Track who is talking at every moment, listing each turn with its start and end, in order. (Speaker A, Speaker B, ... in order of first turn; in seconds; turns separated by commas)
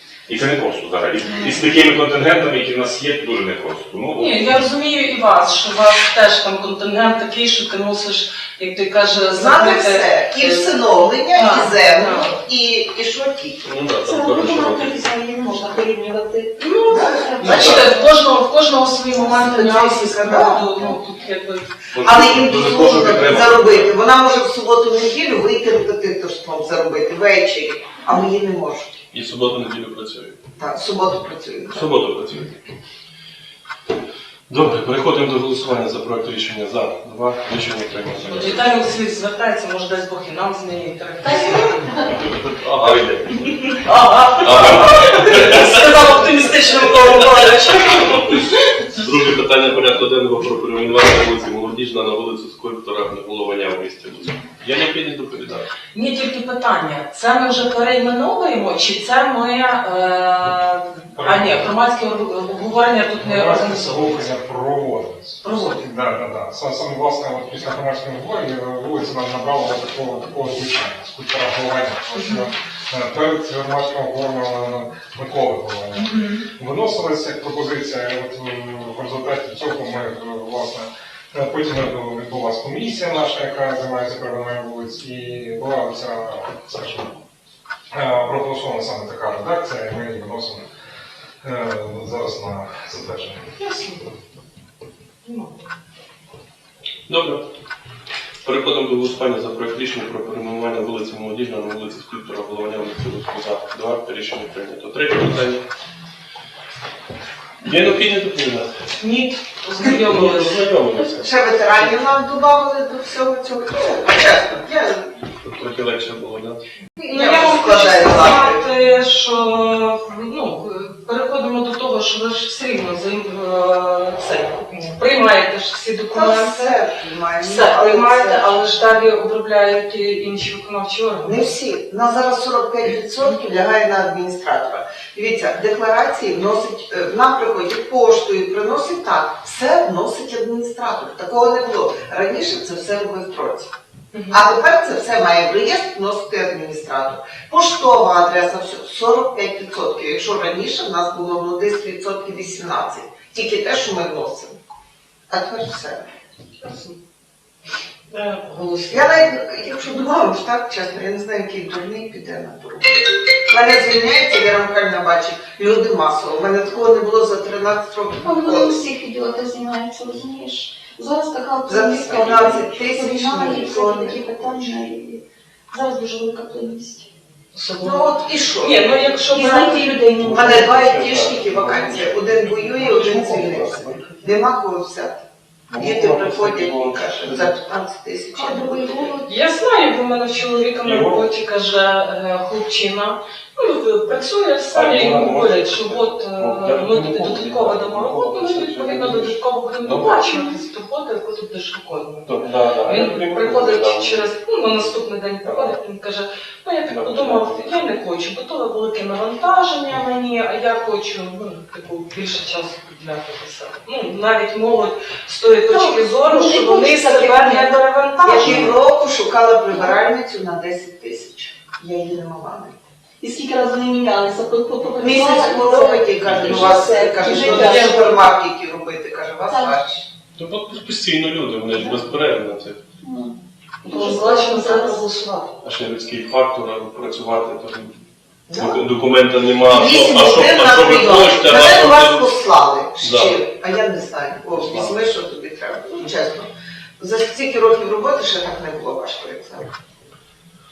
Speaker A: 0.3-4.7, Speaker B: 4.2-10.7, Speaker C: 9.3-13.7, Speaker B: 11.3-12.3, Speaker D: 13.7-15.0, Speaker E: 13.9-18.2, Speaker B: 16.6-21.7, Speaker C: 16.9-18.0, Speaker C: 19.1-20.9, Speaker E: 20.4-21.0, Speaker A: 21.9-24.0, Speaker C: 22.0-29.0, Speaker D: 29.1-30.4, Speaker C: 30.6-31.9, Speaker D: 31.7-32.6, Speaker D: 34.5-38.7, Speaker B: 38.6-42.0, Speaker D: 42.6-43.4, Speaker B: 43.5-48.4, Speaker D: 44.4-45.8, Speaker D: 48.9-55.7, Speaker B: 56.0-64.2, Speaker F: 61.2-61.8, Speaker F: 63.2-87.2, Speaker F: 87.9-90.7, Speaker F: 91.4-93.5, Speaker D: 97.1-97.5, Speaker D: 98.4-105.6, Speaker D: 107.6-108.8, Speaker B: 109.0-110.6, Speaker D: 109.8-112.0, Speaker C: 111.2-115.1, Speaker D: 115.4-116.6, Speaker C: 117.0-118.7, Speaker B: 117.1-126.8, Speaker C: 126.1-128.7, Speaker B: 127.4-131.4, Speaker C: 131.2-143.7, Speaker C: 144.3-154.6, Speaker C: 155.3-156.1, Speaker B: 158.2-159.1, Speaker C: 158.9-168.8, Speaker E: 168.2-177.1, Speaker C: 171.7-174.8, Speaker B: 177.6-179.9, Speaker C: 177.8-179.0, Speaker E: 179.3-180.8, Speaker D: 180.2-184.2, Speaker C: 180.3-189.2, Speaker D: 185.7-187.5, Speaker E: 188.3-189.4, Speaker B: 189.3-202.3, Speaker D: 190.8-191.3, Speaker D: 194.7-200.6, Speaker D: 202.3-204.3, Speaker B: 202.9-218.7, Speaker D: 205.4-205.8, Speaker D: 206.9-207.8, Speaker E: 215.6-217.8, Speaker C: 218.2-222.8, Speaker E: 219.7-220.0, Speaker E: 223.2-228.3, Speaker C: 225.0-230.1, Speaker D: 226.3-226.7, Speaker E: 229.5-229.8, Speaker D: 230.4-232.8, Speaker E: 233.0-235.0, Speaker B: 233.9-235.5, Speaker D: 235.6-238.0, Speaker C: 238.5-238.8, Speaker D: 238.5-242.3, Speaker C: 239.7-249.7, Speaker D: 243.0-243.4, Speaker D: 244.6-245.0